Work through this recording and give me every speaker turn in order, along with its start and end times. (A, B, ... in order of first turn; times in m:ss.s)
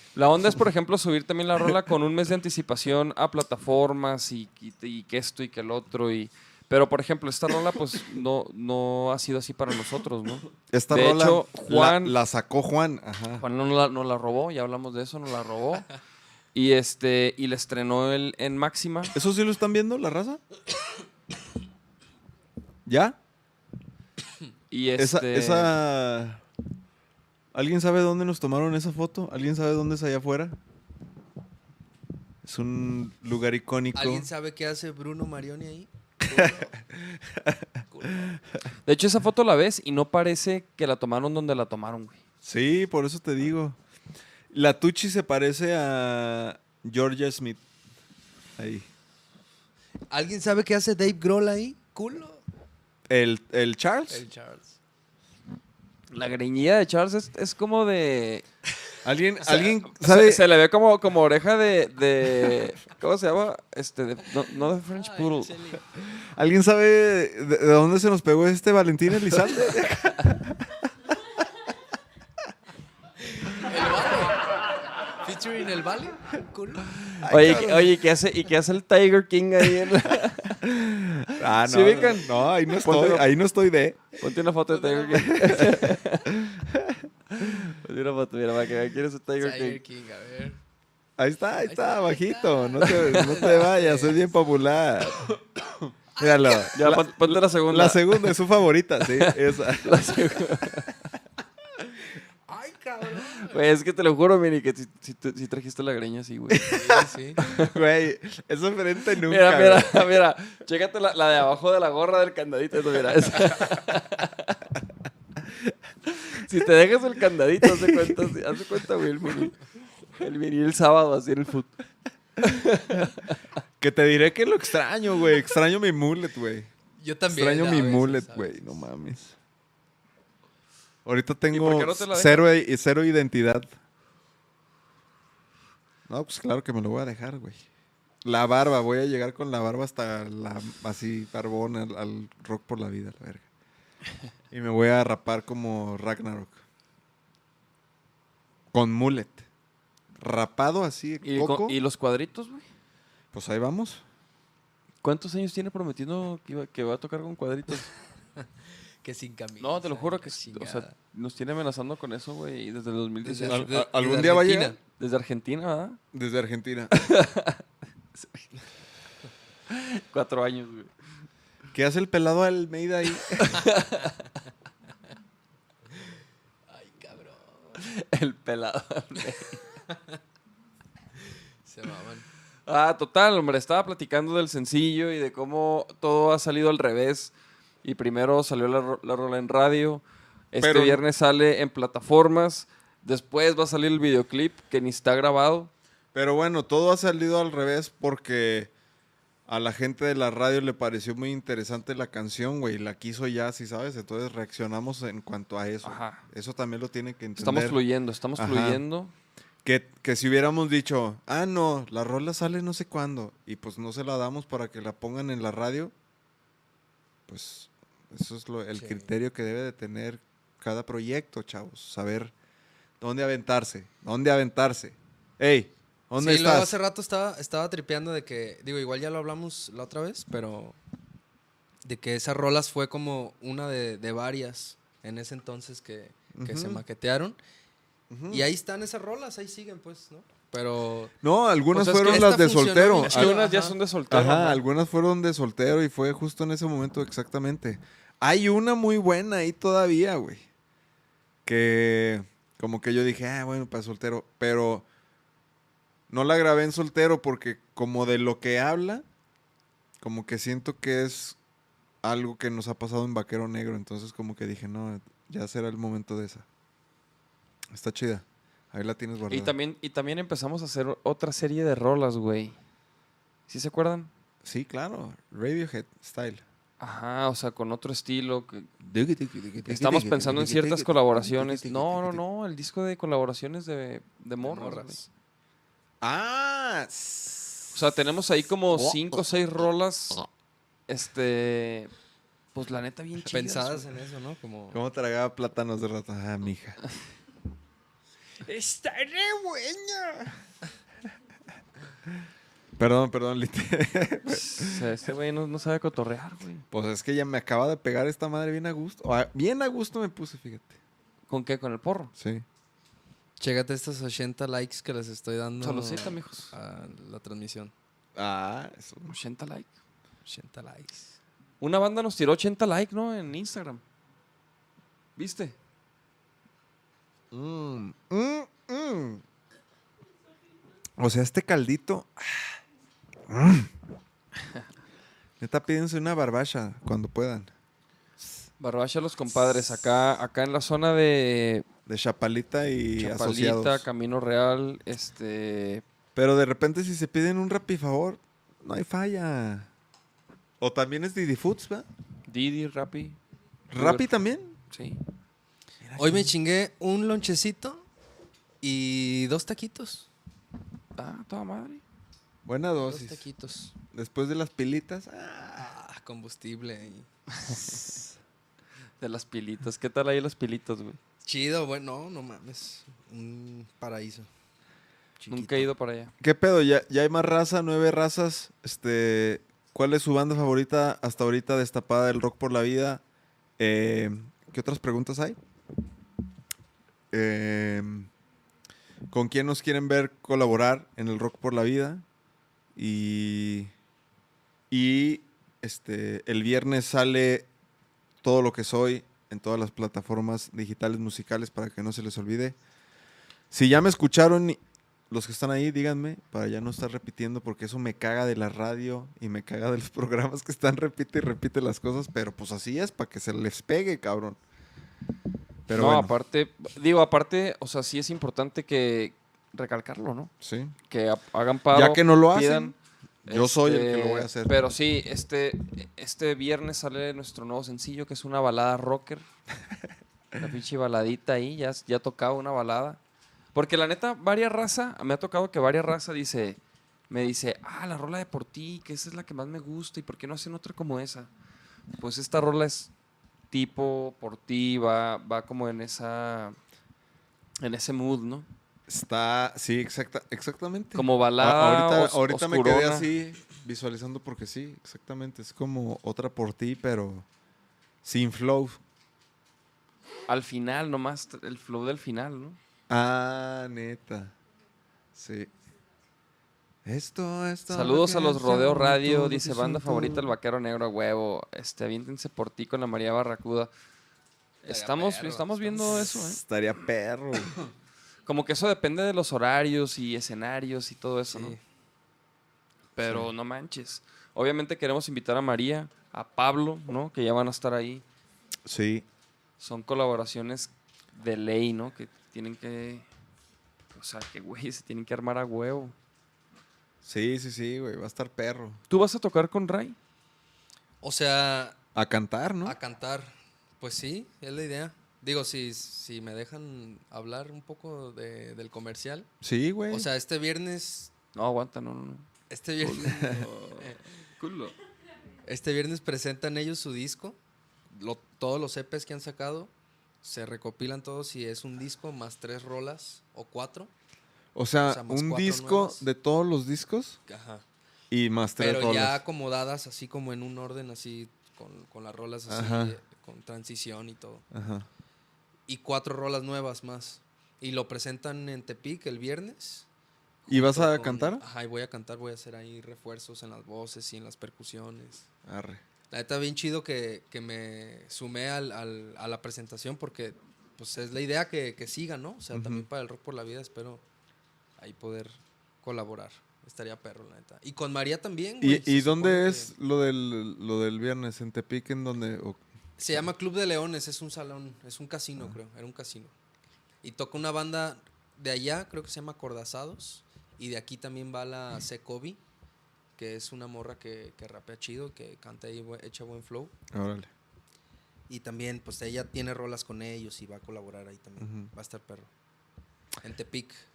0:00.1-0:12.2 A
0:10.7-0:13.4 B
0:13.4-0:15.9 A
0:16.5-0:19.1 A
0:19.1-0:20.4 B
0:22.8-0:23.2 B
0:24.7-0:25.7 A
0:25.0-0:26.4 B
0:27.5-0:30.6 B
0:32.4-0:34.3 B
0:33.9-0:36.7 C
0:36.3-0:38.4 B
0:37.9-0:38.3 C
0:38.8-0:42.2 A
0:42.4-0:43.8 B
0:44.5-0:47.6 B
0:48.6-0:48.9 B
0:50.1-0:52.4 C
0:53.1-0:54.2 B
0:54.1-0:54.8 C
0:56.1-0:58.4 A
0:59.0-1:00.4 B
0:59.9-1:05.5 A
1:04.9-1:05.8 C
1:06.3-1:10.7 B
1:13.3-1:14.5 C
1:15.2-1:17.0 C
1:17.2-1:18.0 B
1:17.2-1:20.6 A
1:20.6-1:24.2 B
1:21.6-1:23.3 A
1:24.2-1:26.3 A
1:24.7-1:25.8 C
1:25.1-1:27.7 B
1:27.4-1:29.8 A
1:29.4-1:30.6 C
1:31.2-1:40.2 B
1:31.6-1:34.3 C
1:32.8-1:33.5 A
1:36.2-1:36.7 C
1:36.7-1:38.4 A
1:39.0-1:40.9 A
1:42.5-1:43.6 C
1:43.4-1:46.7 A
1:46.5-1:50.1 B
1:46.6-1:47.4 C
1:47.4-1:47.8 A
1:49.2-1:54.6 A
1:56.1-1:59.6 A
1:57.6-1:58.2 B
2:00.1-2:01.7 A
2:02.4-2:03.3 A
2:03.8-2:06.7 B
2:07.0-2:08.8 C
2:07.3-2:09.4 B
2:11.0-2:13.7 B
2:11.5-2:12.5 A
2:16.1-2:17.6 B
2:18.2-2:23.4 B
2:24.5-2:26.6 B
2:28.7-2:29.5 B
2:30.2-2:31.8 B
2:31.2-2:32.6 A
2:33.3-2:34.0 B
2:35.0-2:37.9 A
2:39.0-2:40.9 C
2:39.6-2:43.7 A
2:43.2-2:44.8 C
2:43.4-2:44.8 B
2:45.0-2:46.0 A
2:46.1-2:46.9 B
2:47.0-2:47.6 A
2:48.2-2:48.5 A
2:49.7-2:50.9 A
2:51.7-2:53.6 B
2:53.4-2:54.1 A
2:56.7-2:57.8 C
2:57.8-2:59.6 A
3:01.6-3:02.2 C
3:02.6-3:07.3 A
3:07.8-3:15.7 A
3:10.6-3:11.0 B
3:16.1-3:18.7 B
3:19.5-3:27.8 B
3:25.8-3:26.2 A
3:27.4-3:29.1 A
3:28.3-3:28.8 B
3:29.6-3:35.9 B
3:37.3-3:42.3 B
3:38.7-3:39.1 C
3:43.0-3:46.8 B
3:46.2-3:50.8 C
3:51.8-3:57.4 C
3:56.3-3:56.8 B
3:58.1-3:58.5 B
3:58.3-4:01.1 C
4:01.2-4:03.4 B
4:01.7-4:03.8 C
4:03.0-4:04.6 A
4:04.1-4:10.4 B
4:11.4-4:14.8 B
4:16.1-4:19.0 B
4:20.0-4:21.4 B
4:22.0-4:26.4 B
4:27.7-4:29.5 B
4:29.3-4:32.6 A
4:33.5-4:34.1 A
4:34.4-4:36.4 B
4:36.8-4:38.7 A
4:38.8-4:42.2 B
4:39.6-4:45.0 A
4:44.4-4:45.1 C
4:46.0-4:47.8 B
4:47.7-4:50.2 A
4:48.7-4:49.2 B
4:50.9-4:51.9 A
4:52.5-4:53.8 A
4:53.3-4:54.8 C
4:54.7-4:56.8 B
4:58.4-5:00.3 B
5:02.8-5:05.0 B
5:04.2-5:06.6 A
5:06.7-5:10.8 B
5:11.3-5:12.1 A
5:12.2-5:12.4 B
5:13.4-5:17.7 C
5:15.6-5:16.5 A
5:18.2-5:19.1 B
5:19.1-5:19.7 A
5:20.2-5:21.2 C
5:21.6-5:23.8 A
5:25.2-5:25.6 A
5:27.3-5:29.2 B
5:31.0-5:32.4 B
5:33.3-5:33.7 B
5:35.4-5:37.5 B
5:38.6-5:41.6 A
5:41.8-5:43.8 B
5:43.0-5:45.8 A
5:46.1-5:49.7 B
5:50.6-5:51.9 B
5:52.3-5:53.2 A
5:53.7-5:54.6 B
5:53.8-5:54.1 A
5:54.7-5:55.0 A
5:55.8-5:56.3 B
5:56.0-5:57.8 C
5:58.6-6:00.1 C
6:01.0-6:01.8 A
6:02.4-6:03.2 B
6:02.8-6:03.7 C
6:03.9-6:05.7 B
6:05.6-6:08.0 C
6:09.0-6:11.0 A
6:11.2-6:14.3 C
6:15.2-6:15.7 C
6:15.3-6:16.1 A
6:16.2-6:23.0 B
6:23.6-6:25.4 B
6:27.1-6:28.1 B
6:29.1-6:32.0 B
6:32.8-6:33.7 B
6:34.7-6:37.5 B
6:38.2-6:42.6 B
6:43.5-6:44.6 B
6:45.1-6:54.4 B
6:55.7-6:56.1 B
6:55.7-7:00.3 A
7:00.4-7:00.7 B
7:00.9-7:02.7 A
7:01.7-7:02.7 B
7:03.2-7:04.6 B
7:03.2-7:09.2 A
7:10.4-7:13.0 A
7:13.5-7:16.6 A
7:17.1-7:21.3 A
7:22.0-7:22.9 A
7:23.5-7:26.6 A
7:27.6-7:28.5 A
7:28.9-7:37.2 B
7:30.9-7:33.1 A
7:38.0-7:38.8 B
7:40.3-7:42.6 A
7:42.9-7:44.3 B
7:45.2-7:45.5 B
7:46.8-7:50.3 B
7:47.7-7:53.7 A
7:54.6-7:56.4 A
7:54.6-7:56.1 C
7:56.1-7:57.5 B
7:58.2-8:01.6 A
8:01.3-8:01.6 C
8:02.9-8:08.0 A
8:03.0-8:03.3 B
8:08.6-8:09.0 B
8:09.6-8:13.0 A
8:13.9-8:15.9 A
8:17.0-8:18.8 B
8:18.9-8:20.0 A
8:21.0-8:21.8 C
8:21.9-8:22.8 B
8:22.6-8:29.3 C
8:29.4-8:30.1 B
8:29.9-8:31.1 C
8:31.3-8:32.3 A
8:32.5-8:34.0 C
8:32.8-8:33.4 B
8:32.8-8:34.7 A
8:35.4-8:37.4 C
8:37.9-8:39.7 C
8:40.2-8:43.9 C
8:44.5-8:47.2 B
8:44.8-8:46.0 C
8:47.3-8:47.6 C
8:48.1-8:49.2 B
8:48.6-8:54.4 C
8:52.5-8:53.0 B
8:54.5-8:54.9 B
8:55.7-8:59.8 C
9:00.4-9:05.2 C
9:00.5-9:01.4 B
9:05.4-9:05.8 B
9:06.1-9:14.0 C
9:12.5-9:12.9 B
9:14.8-9:19.7 C
9:18.6-9:22.6 B
9:23.0-9:26.3 C
9:27.0-9:32.4 C
9:33.2-9:36.7 C
9:36.9-9:37.3 B
9:38.3-9:42.3 C
9:41.4-9:41.7 B
9:43.2-9:43.8 C